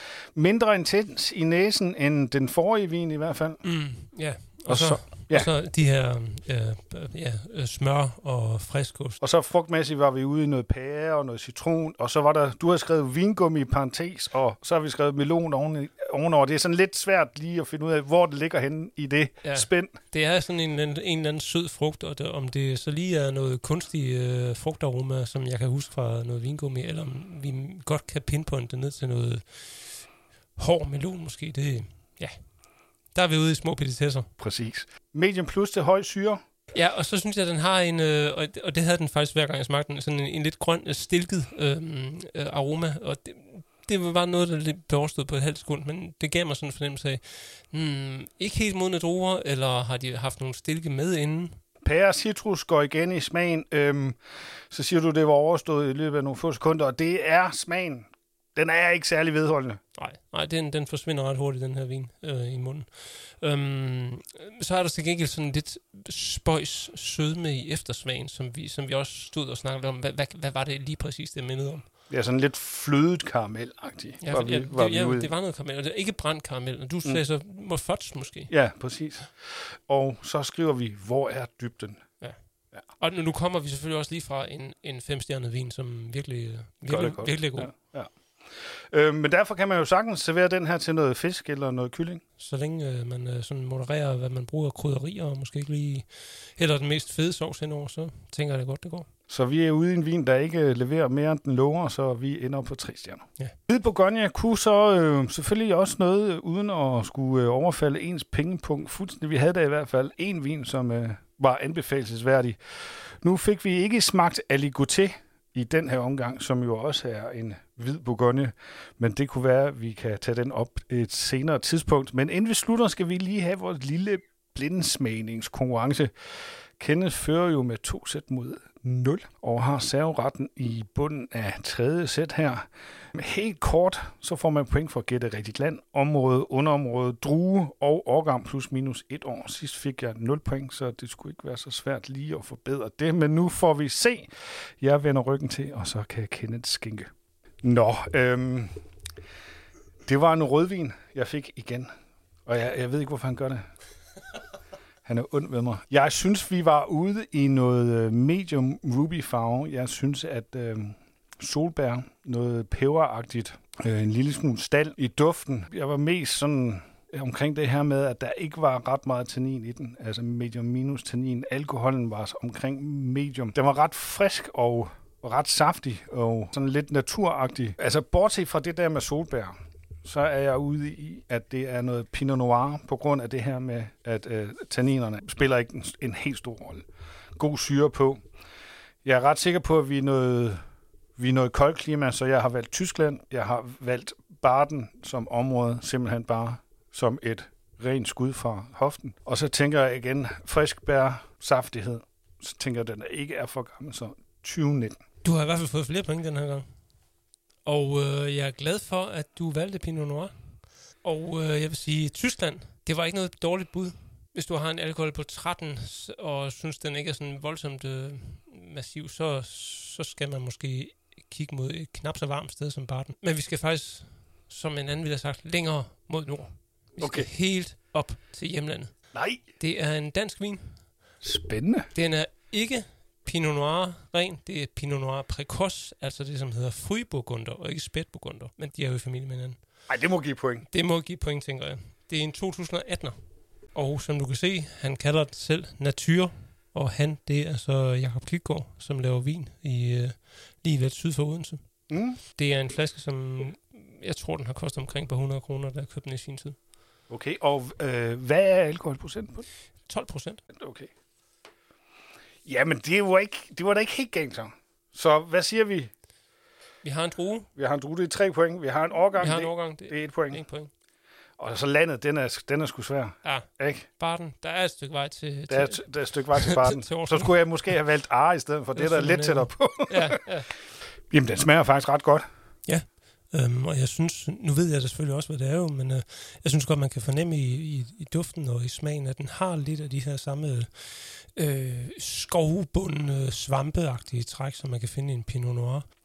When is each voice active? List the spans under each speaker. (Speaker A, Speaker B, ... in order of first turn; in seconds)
Speaker A: 0.3-3.6, 4.7-5.5, 9.2-20.0, 34.4-36.4, 51.8-54.2, 54.7-59.8, 72.1-75.3, 78.5-82.8, 86.9-92.2, 99.3-144.3, 144.8-147.1, 147.6-148.7, 150.1-151.9, 152.5-153.7, 155.1-186.8, 187.4-188.2, 189.0-190.6, 191.2-205.0, 227.0-227.3, 229.1-229.4, 231.2-231.9, 239.9-240.7, 251.9-252.2, 257.1-259.5, 260.6-260.9, 262.4-265.9, 267.6-270.4, 271.4-273.9, 275.5-280.2, 281.1-282.3
Speaker B: 3.6-9.2, 19.4-34.3, 36.7-51.6, 60.0-71.9, 74.2-78.5, 82.2-87.7, 92.4-99.1, 205.2-206.9, 207.7-231.0, 231.9-239.9, 240.7-256.7, 259.9-260.4, 266.8-267.5, 269.2-270.7, 273.2-277.8, 278.8-280.6, 282.7-295.9